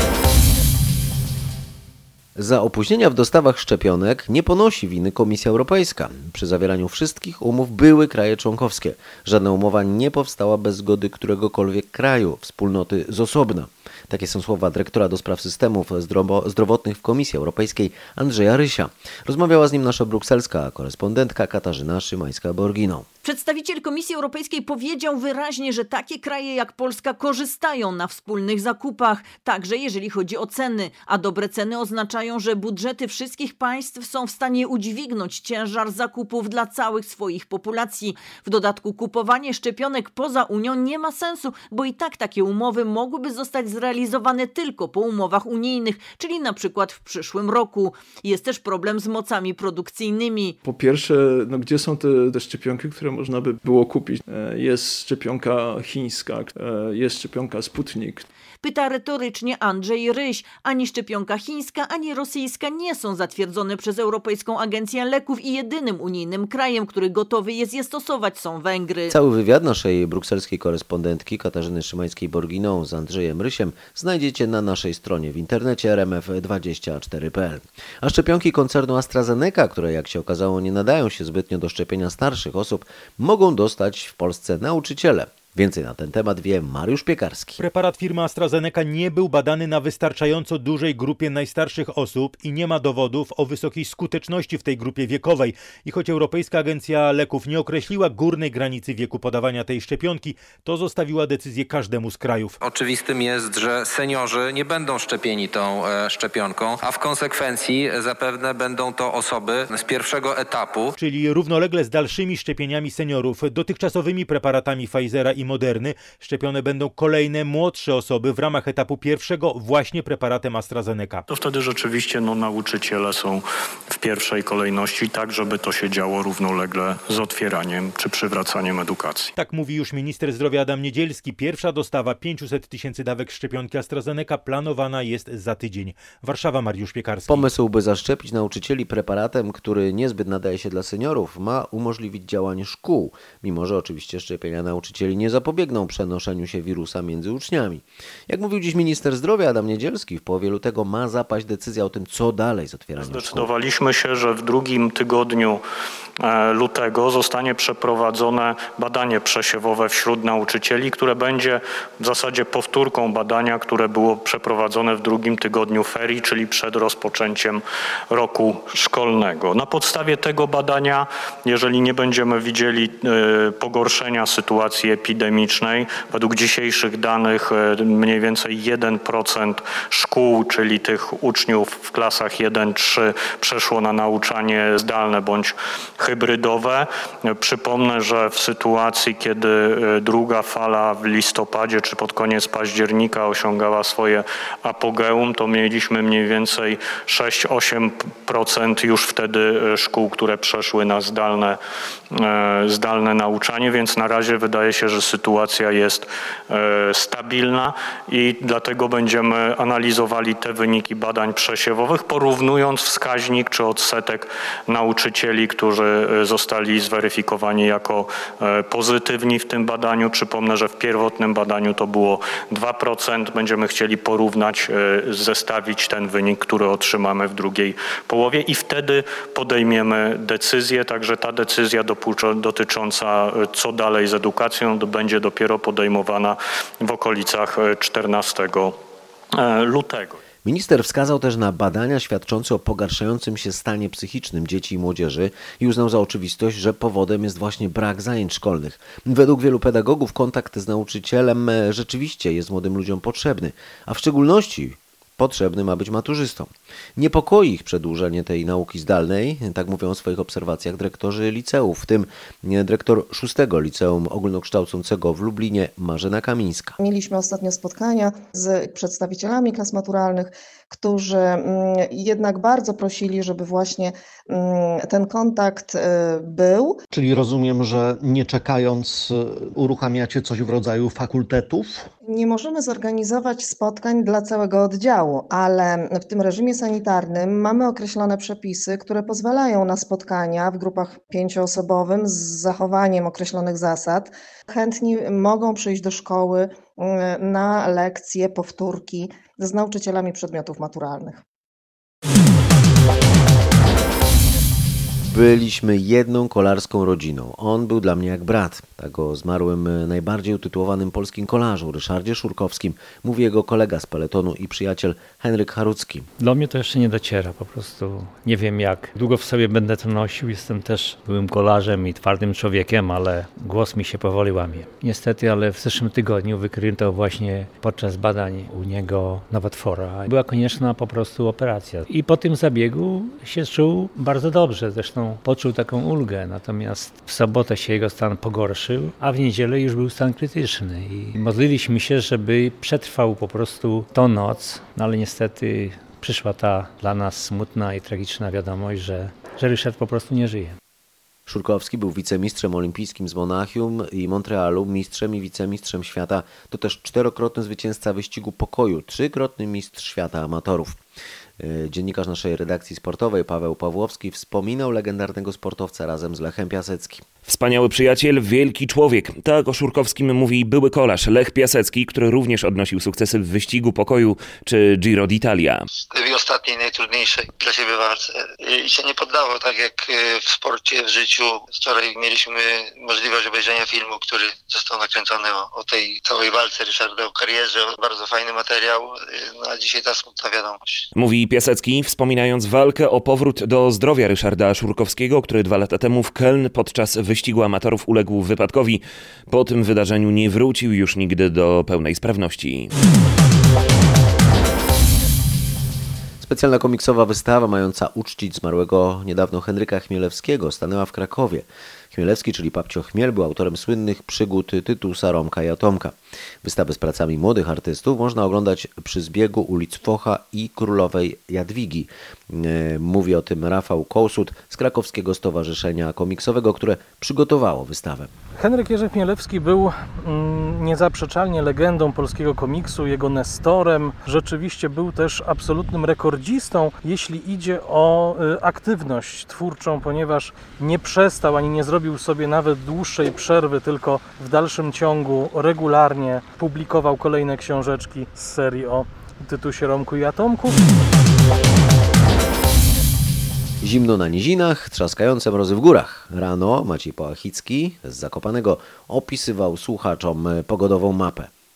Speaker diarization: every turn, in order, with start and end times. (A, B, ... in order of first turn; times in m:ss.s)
0:02.4-0:23.1 A
0:23.2-0:50.6 B
0:50.6-0:58.3 C
0:58.6-1:09.2 B
1:09.1-1:27.6 A
1:27.6-1:42.6 D
1:42.6-1:50.9 E
1:51.0-2:01.2 D
2:01.3-2:09.3 F
2:09.4-2:17.5 D
2:17.3-2:33.5 A
2:33.0-2:35.6 F
2:36.2-3:21.6 F
3:22.1-3:58.8 F
3:59.4-4:00.2 F
4:00.4-4:26.8 A
4:26.8-4:36.8 G
4:36.9-4:41.9 H
4:42.1-5:01.2 G
5:05.0-5:16.1 A
5:16.2-5:50.6 I
5:51.3-6:00.8 A
6:01.4-6:07.1 A
6:07.3-6:15.6 J
6:15.9-6:30.8 K
6:31.0-6:42.7 J
6:46.2-7:08.1 A
7:08.4-7:30.6 L
7:33.6-7:41.3 A